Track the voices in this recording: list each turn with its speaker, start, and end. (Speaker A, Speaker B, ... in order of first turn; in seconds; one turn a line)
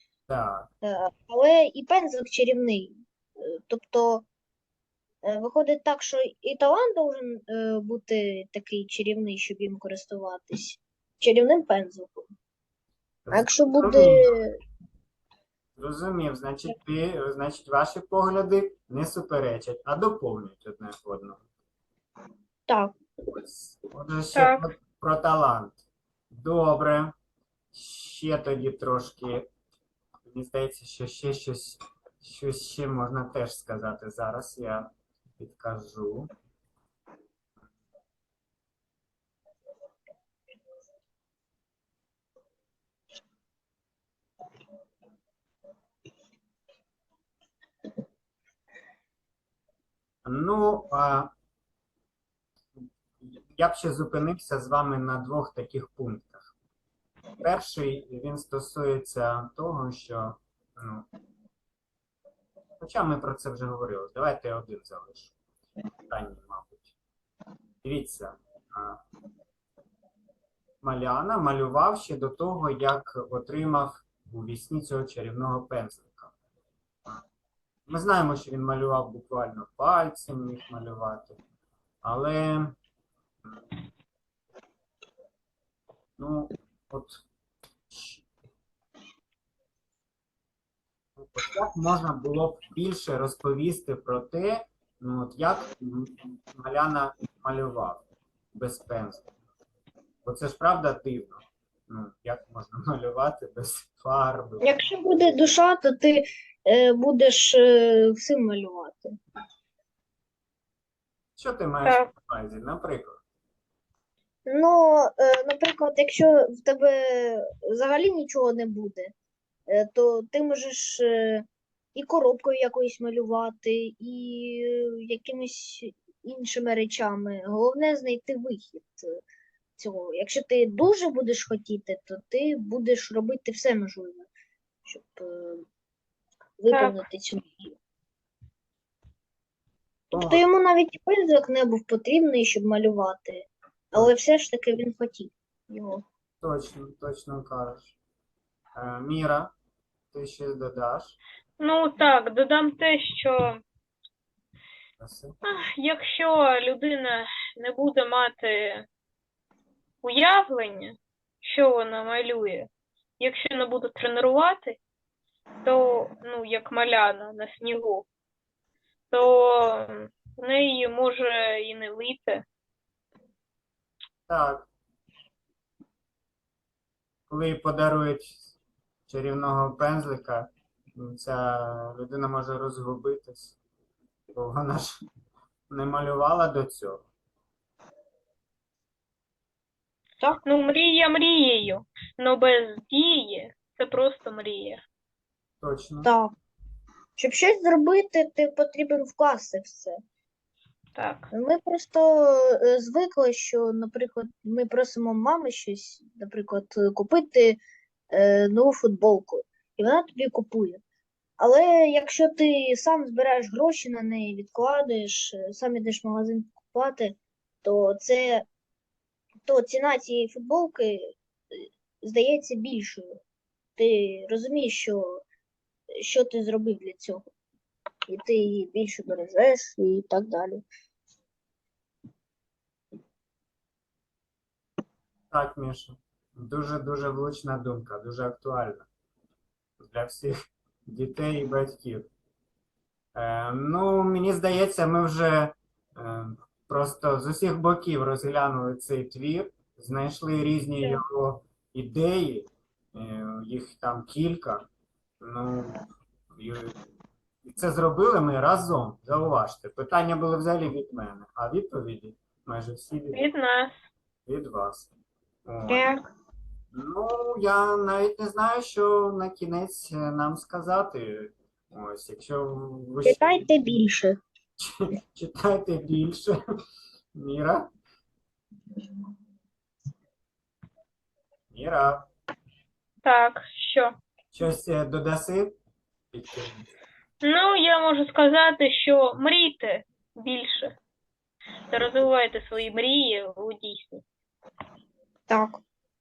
Speaker A: 0.3-0.7
Speaker B: 0.8-4.2
Speaker B: 5.2-12.3
Speaker A: 13.2-14.5
Speaker B: 13.3-14.6
Speaker A: 15.8-21.4
Speaker B: 22.7-22.9
Speaker A: 23.3-25.8
Speaker C: 24.3-24.7
Speaker A: 26.3-27.1
Speaker A: 27.7-29.5
Speaker A: 30.3-36.3
Speaker A: 50.2-51.3
Speaker A: 53.2-56.5
Speaker A: 57.4-61.1
Speaker A: 62.8-65.3
Speaker A: 66.1-66.9
Speaker A: 67.8-69.0
Speaker A: 70.8-76.3
Speaker A: 77.9-81.4
Speaker A: 82.0-82.8
Speaker A: 86.2-87.2
Speaker A: 87.9-88.2
Speaker A: 91.2-99.3
Speaker A: 100.2-105.4
Speaker B: 104.6-109.2
Speaker A: 111.4-113.2
Speaker C: 111.8-112.1
Speaker B: 114.5-119.1
Speaker B: 119.7-129.2
Speaker B: 129.8-134.3
Speaker B: 134.8-135.6
Speaker B: 136.6-137.8
Speaker C: 136.7-137.0
Speaker A: 140.1-140.4
Speaker B: 140.1-146.0
Speaker A: 146.4-147.9
Speaker A: 148.7-149.5
Speaker A: 150.1-151.2
Speaker C: 151.6-153.6
Speaker A: 155.0-155.3
Speaker C: 155.4-158.9
Speaker C: 160.0-164.8
Speaker C: 165.6-168.1
Speaker C: 169.1-172.4
Speaker A: 174.3-174.7
Speaker A: 177.3-178.5
Speaker A: 179.1-183.6
Speaker A: 184.3-185.0
Speaker A: 185.7-187.0
Speaker C: 190.4-194.8
Speaker A: 195.6-196.1
Speaker B: 196.0-196.3
Speaker B: 197.2-200.0
Speaker C: 200.9-201.3
Speaker B: 201.3-207.6
Speaker B: 208.1-210.8
Speaker B: 211.4-218.4
Speaker B: 219.4-223.2
Speaker B: 223.8-225.2
Speaker B: 226.0-227.3
Speaker B: 228.1-230.6
Speaker A: 235.3-238.9
Speaker A: 239.8-242.1
Speaker A: 243.1-254.7
Speaker A: 255.2-255.8
Speaker A: 256.3-256.8
Speaker A: 257.4-263.3
Speaker C: 263.1-263.8
Speaker A: 264.2-264.9
Speaker A: 265.4-265.9
Speaker B: 265.7-266.1
Speaker A: 266.7-273.5
Speaker B: 273.0-274.2
Speaker A: 274.6-276.4
Speaker A: 277.1-277.7
Speaker A: 281.5-282.1
Speaker C: 283.0-284.0
Speaker A: 284.3-285.5
Speaker A: 286.1-286.6
Speaker C: 287.2-290.8
Speaker C: 291.7-294.0
Speaker B: 295.3-295.6